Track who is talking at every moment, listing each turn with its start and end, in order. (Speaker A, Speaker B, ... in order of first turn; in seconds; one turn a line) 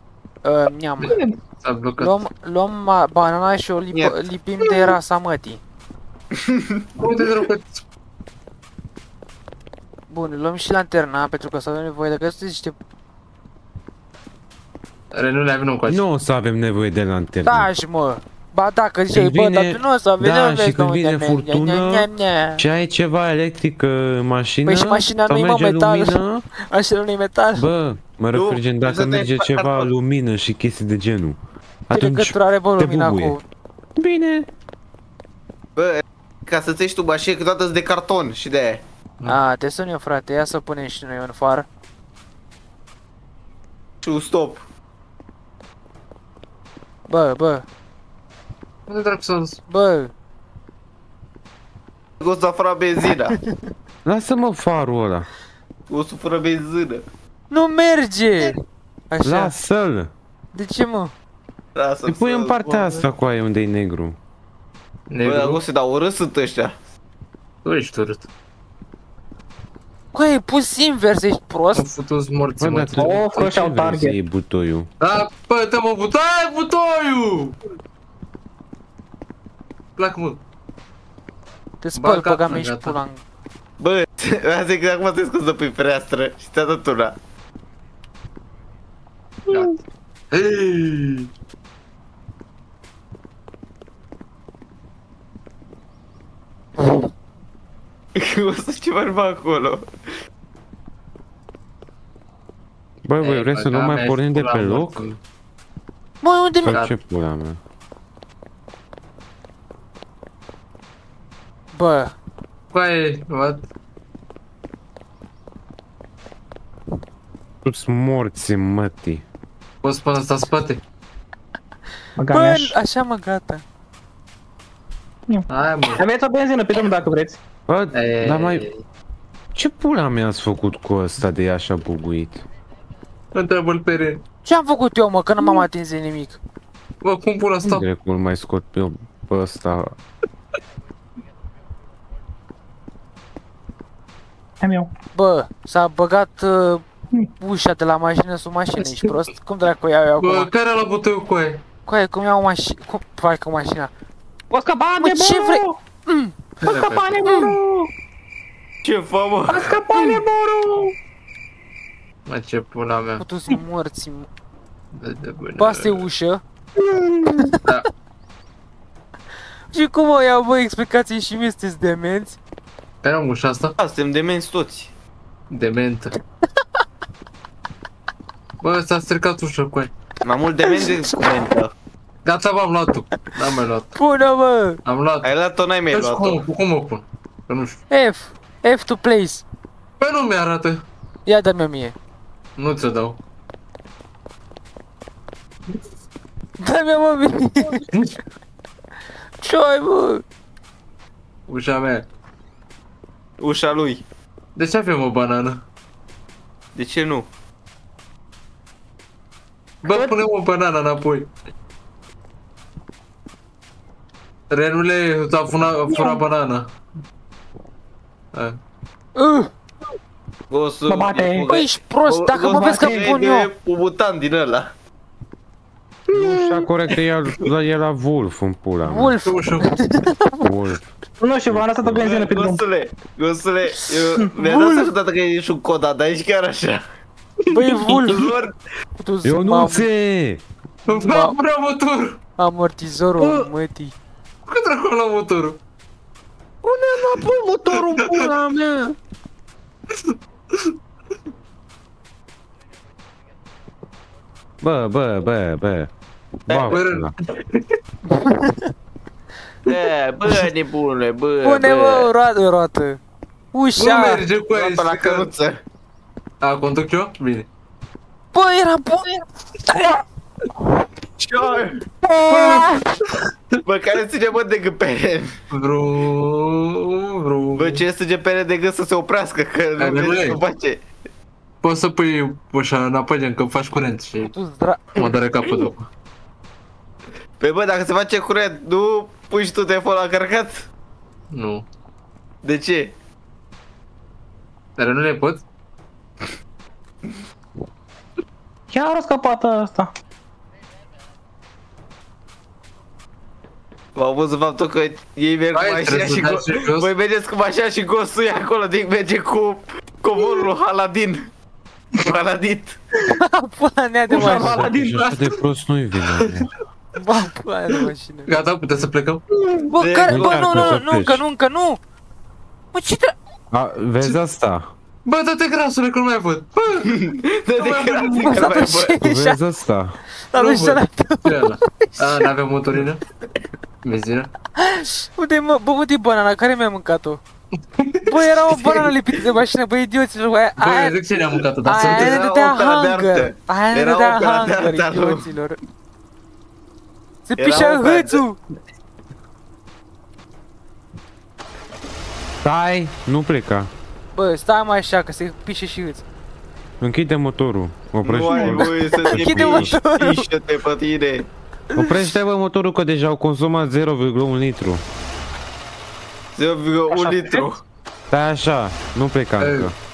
Speaker A: 0.4-1.2
Speaker B: 1.0-1.4
Speaker C: 1.6-2.2
Speaker A: 2.0-5.6
Speaker C: 7.0-7.8
Speaker A: 10.1-12.8
Speaker C: 15.1-16.0
Speaker D: 15.9-17.7
Speaker A: 17.4-22.6
Speaker D: 19.1-26.4
Speaker A: 24.7-27.7
Speaker D: 27.6-33.4
Speaker E: 28.3-29.9
Speaker A: 31.9-33.4
Speaker D: 34.0-34.5
Speaker E: 35.8-38.8
Speaker A: 39.3-41.7
Speaker E: 44.0-44.6
Speaker A: 47.1-47.7
Speaker C: 48.9-49.6
Speaker A: 49.7-50.1
Speaker E: 52.2-53.4
Speaker D: 54.0-55.3
Speaker E: 55.9-57.0
Speaker A: 57.5-58.6
Speaker A: 59.1-59.5
Speaker D: 59.2-60.1
Speaker A: 60.5-61.1
Speaker E: 61.8-63.1
Speaker D: 62.1-64.2
Speaker C: 65.1-65.6
Speaker E: 65.2-66.8
Speaker C: 67.7-68.3
Speaker A: 70.1-71.9
Speaker C: 71.8-73.5
Speaker D: 72.6-74.9
Speaker B: 73.0-74.2
Speaker C: 75.0-77.6
Speaker C: 80.0-80.4
Speaker A: 81.8-83.2
Speaker C: 82.0-83.0
Speaker E: 83.8-87.2
Speaker C: 89.5-89.7
Speaker C: 90.3-91.3
Speaker E: 98.2-99.9
Speaker D: 103.0-105.1
Speaker C: 103.2-105.2
Speaker A: 106.2-106.8
Speaker D: 106.6-107.6
Speaker A: 111.7-112.2
Speaker C: 112.7-113.7
Speaker D: 117.7-119.2
Speaker C: 119.8-120.8
Speaker B: 122.2-122.8
Speaker A: 122.3-123.6
Speaker C: 125.5-126.0
Speaker B: 126.0-127.4
Speaker D: 127.7-128.7
Speaker C: 127.9-128.8
Speaker D: 129.6-132.4
Speaker C: 133.3-134.2
Speaker A: 134.4-136.4
Speaker C: 137.0-137.8
Speaker D: 137.6-139.9
Speaker B: 144.6-144.9
Speaker A: 145.1-146.8
Speaker A: 147.4-150.5
Speaker C: 148.8-149.1
Speaker C: 150.2-151.6
Speaker A: 151.9-153.9
Speaker B: 154.5-155.8
Speaker A: 155.0-156.4
Speaker C: 156.6-157.3
Speaker B: 156.6-157.9
Speaker A: 157.2-157.6
Speaker E: 158.8-159.8
Speaker B: 159.5-161.0
Speaker A: 159.9-160.2
Speaker C: 162.3-163.2
Speaker A: 163.2-164.3
Speaker C: 164.9-166.1
Speaker A: 165.6-166.4
Speaker B: 166.8-167.6
Speaker A: 169.7-172.4
Speaker C: 173.0-173.8
Speaker E: 173.8-174.9
Speaker C: 175.5-176.2
Speaker C: 178.6-179.9
Speaker E: 180.2-181.7
Speaker A: 180.7-181.0
Speaker C: 182.2-183.9
Speaker A: 183.9-184.8
Speaker C: 184.8-185.3
Speaker E: 185.2-186.4
Speaker C: 185.9-187.8
Speaker A: 187.9-189.4
Speaker C: 190.0-190.8
Speaker A: 191.3-191.9
Speaker C: 192.6-193.2
Speaker A: 196.6-197.8
Speaker A: 199.4-200.2
Speaker C: 201.5-202.1
Speaker E: 203.4-204.0
Speaker C: 204.6-205.6
Speaker E: 206.8-207.3
Speaker C: 209.8-211.3
Speaker B: 209.8-210.2
Speaker C: 214.5-216.7
Speaker B: 215.9-216.2
Speaker A: 219.2-219.5
Speaker E: 220.5-224.7
Speaker B: 220.9-221.5
Speaker A: 221.5-223.5
Speaker B: 222.7-223.1
Speaker D: 226.1-229.2
Speaker B: 226.1-226.6
Speaker A: 228.8-230.4
Speaker C: 229.2-229.7
Speaker D: 230.4-230.9
Speaker B: 231.2-232.6
Speaker D: 231.5-232.1
Speaker E: 232.0-236.8
Speaker A: 234.4-234.9
Speaker A: 237.5-238.2
Speaker E: 238.0-238.5
Speaker A: 239.0-239.9
Speaker D: 239.2-240.4
Speaker C: 240.9-242.2
Speaker A: 240.9-241.4
Speaker A: 242.4-243.9
Speaker D: 243.2-243.5
Speaker C: 244.5-245.6
Speaker D: 246.6-249.0
Speaker C: 247.8-248.2
Speaker C: 250.1-250.7
Speaker D: 254.6-255.9
Speaker E: 256.5-256.8
Speaker D: 256.5-257.1
Speaker C: 256.7-257.8
Speaker A: 258.1-258.7
Speaker E: 259.7-262.1
Speaker A: 261.4-263.0
Speaker A: 263.5-264.2
Speaker C: 263.8-265.3
Speaker E: 264.5-265.6
Speaker C: 266.4-267.5
Speaker A: 268.3-270.0
Speaker E: 271.2-271.8
Speaker A: 272.0-272.8
Speaker C: 272.3-272.9
Speaker E: 273.6-275.4
Speaker C: 275.5-277.9
Speaker E: 277.6-280.8
Speaker C: 279.8-280.4
Speaker C: 281.6-284.3
Speaker A: 284.2-284.8
Speaker C: 285.0-285.9
Speaker E: 287.4-290.6
Speaker C: 291.3-291.7
Speaker E: 292.4-292.9
Speaker C: 294.8-295.4
Speaker B: 298.7-299.9
Speaker E: 304.0-311.3
Speaker C: 305.5-306.9
Speaker E: 312.0-312.8
Speaker A: 313.1-314.7
Speaker B: 314.1-315.1
Speaker D: 314.2-316.5
Speaker C: 315.0-315.4
Speaker A: 317.0-318.4
Speaker C: 318.3-319.2
Speaker A: 319.7-321.8
Speaker E: 319.8-320.7
Speaker D: 320.1-321.2
Speaker A: 322.7-323.1
Speaker D: 323.5-324.7
Speaker C: 325.1-326.9
Speaker E: 326.9-329.0
Speaker C: 327.6-328.4
Speaker A: 328.2-329.4
Speaker D: 329.0-330.0
Speaker A: 330.3-331.9
Speaker C: 330.3-333.0
Speaker C: 333.8-334.3
Speaker A: 334.6-337.2
Speaker A: 338.1-341.0
Speaker C: 340.6-342.3
Speaker A: 341.6-345.6
Speaker E: 341.8-345.2
Speaker A: 347.3-348.4
Speaker E: 347.4-348.2
Speaker D: 352.4-353.7
Speaker A: 354.1-356.0
Speaker D: 356.8-359.8
Speaker E: 358.0-361.3
Speaker A: 358.4-360.3
Speaker D: 361.8-364.8
Speaker E: 366.4-367.6
Speaker B: 366.9-367.5
Speaker D: 368.1-369.7
Speaker C: 369.4-369.7